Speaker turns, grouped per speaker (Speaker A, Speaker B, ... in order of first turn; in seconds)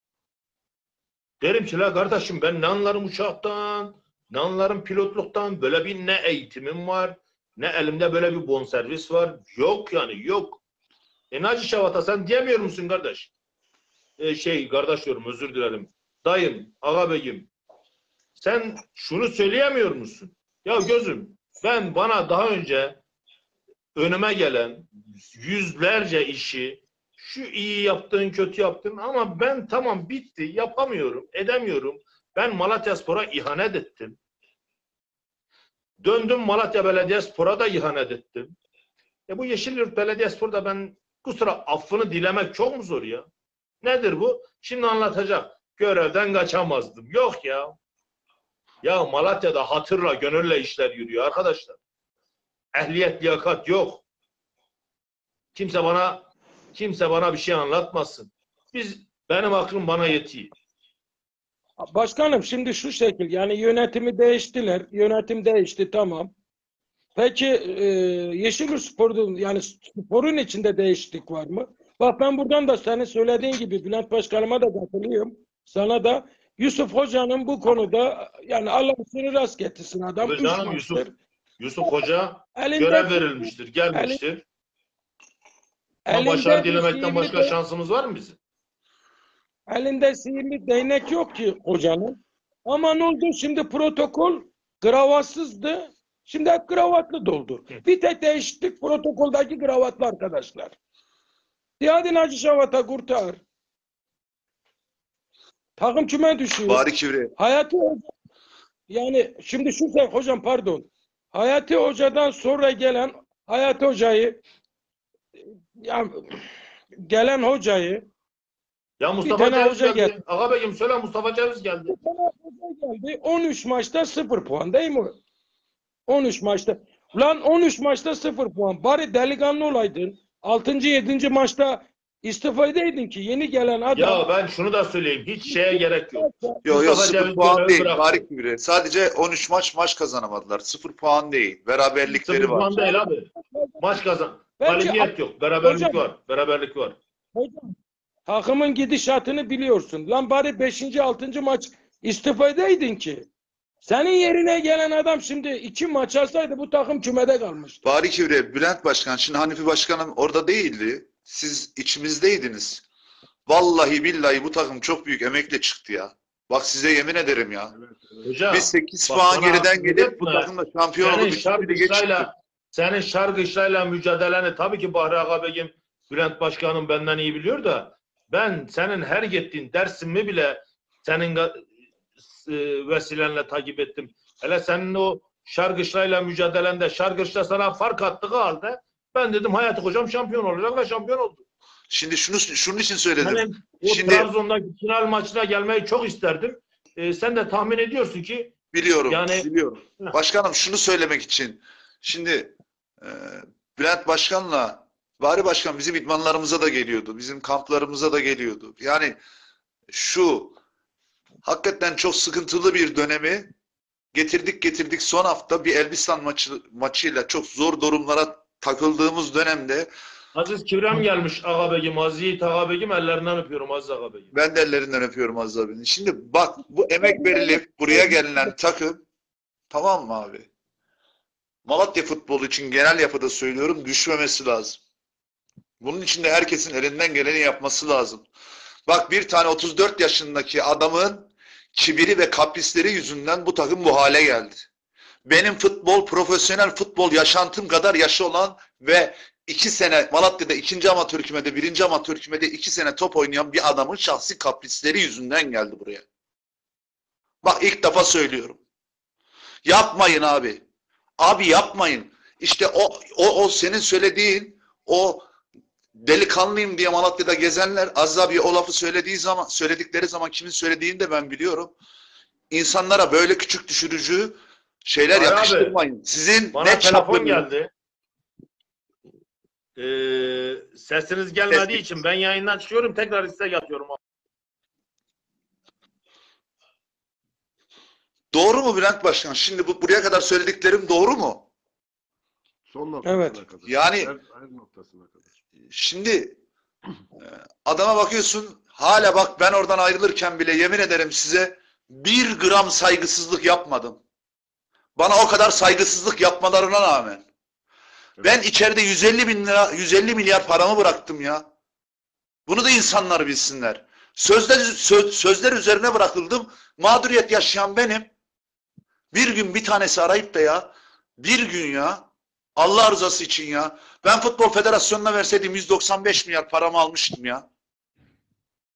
Speaker A: 1.4-10.6, 11.3-13.3, 14.2-17.5, 18.4-23.0, 23.9-34.2, 36.0-38.5, 39.3-43.3, 43.8-47.8, 48.8-51.8, 52.7-54.0, 55.5-60.5, 80.2-81.0, 81.6-84.4, 86.1-88.4, 119.0-121.9, 133.9-138.2, 142.1-147.0, 168.2-181.7, 182.3-191.4, 193.2-198.5, 199.1-199.5, 220.3-224.3, 275.1-275.8, 276.5-277.7, 279.8-284.0
Speaker B: 61.8-66.3, 67.2-81.2, 81.8-84.2, 86.0-87.5, 89.7-100.8, 101.8-103.4, 105.8-108.1, 108.9-114.4, 115.8-116.3, 117.0-118.1, 119.2-120.2, 121.9-125.2, 126.1-134.3, 135.5-136.7, 142.7-144.0, 144.6-146.0, 147.3-147.7, 148.3-153.3, 153.8-157.9, 227.0-228.5, 293.0-293.4
Speaker C: 106.6-107.3, 136.6-142.7, 157.8-162.8, 163.5-167.7, 168.5-172.3, 191.9-194.3, 198.7-209.2, 209.9-210.6, 211.4-213.5, 214.1-219.9, 224.3-229.0, 229.7-230.5, 231.7-234.8, 235.8-238.2, 238.9-244.6, 245.2-256.0, 257.4-258.6, 259.6-260.6, 261.2-265.2, 265.9-271.8, 272.5-277.5, 281.5-281.8, 288.3-291.5, 293.7-294.1, 295.7-296.4, 297.2-304.0, 304.9-307.2, 308.2-311.4, 312.5-318.1, 319.1-322.1, 322.6-327.4
Speaker D: 167.7-168.3, 292.7-295.2, 308.2-308.4